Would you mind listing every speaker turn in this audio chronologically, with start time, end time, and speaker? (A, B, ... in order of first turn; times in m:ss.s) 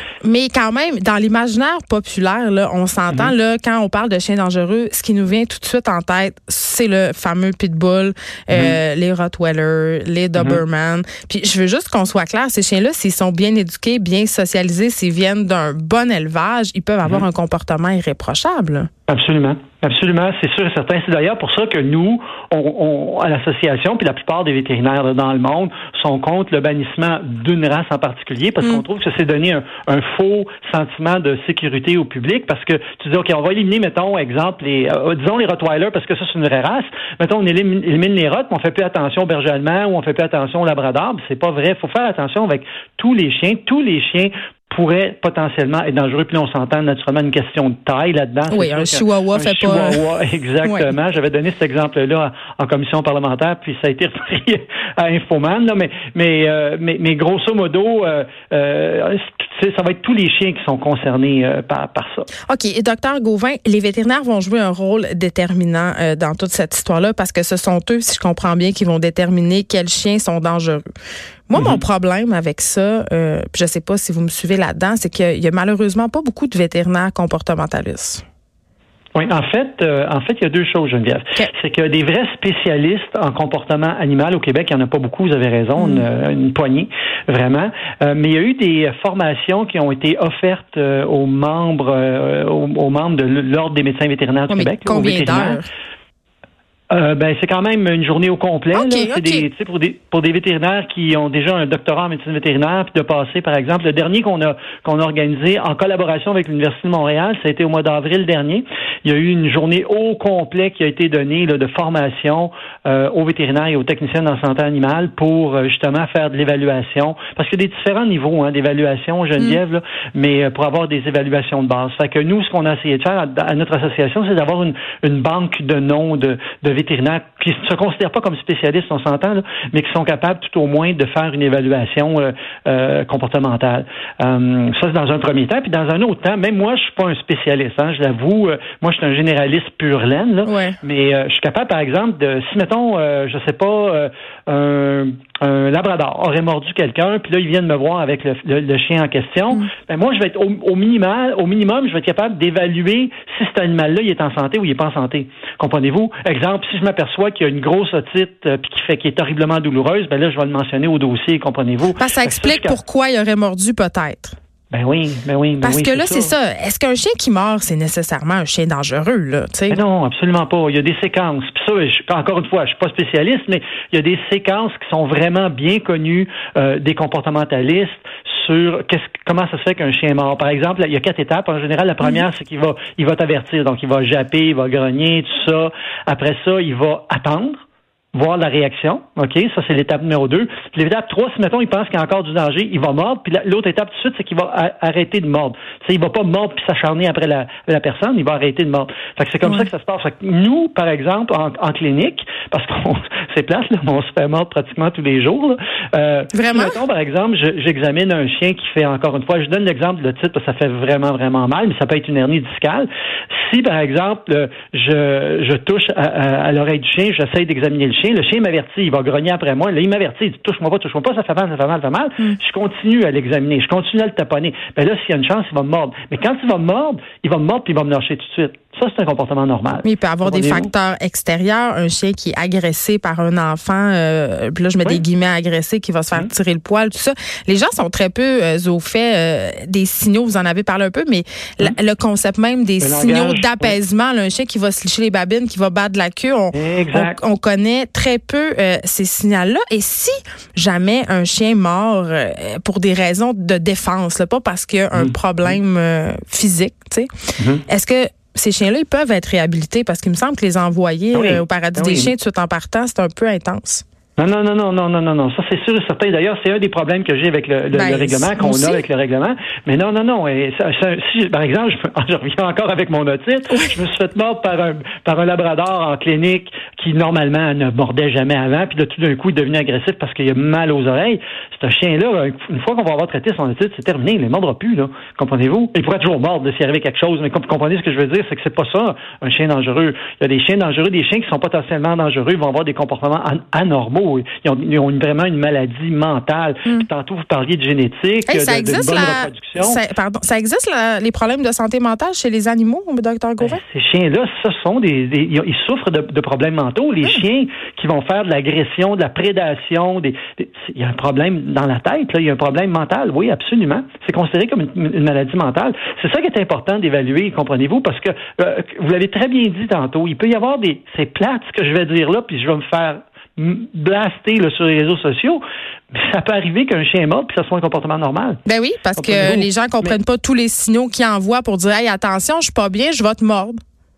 0:00.2-0:18.9 A
0:08.5-0:08.8 B
0:10.4-0:10.6 B
0:19.1-1:02.3 B
0:48.5-0:50.0 A
0:50.6-0:50.9 A
1:02.5-1:10.8 A
1:11.5-1:18.2 A
1:11.6-1:11.8 B
1:19.2-1:35.6 B
1:25.8-1:26.0 A
1:34.5-1:35.7 A
1:36.9-2:42.8 B
1:38.7-1:39.5 A
2:20.5-2:20.8 A
2:42.0-2:44.4 A
2:44.7-2:46.3 B
2:45.6-2:49.8 A
2:49.7-3:07.6 B
3:08.2-3:50.7 B
3:26.3-3:26.8 A
3:49.8-4:17.1 A
4:02.8-4:03.8 B
4:06.5-4:07.2 B
4:14.9-4:15.6 B
4:17.4-4:17.6 B
4:17.7-4:23.8 A
4:21.1-4:22.1 B
4:24.2-4:59.8 B
4:27.7-4:28.8 A
4:58.3-5:03.6 A
5:03.4-5:25.4 B
5:25.9-5:28.4 B
5:28.5-5:33.6 A
5:29.0-5:30.0 B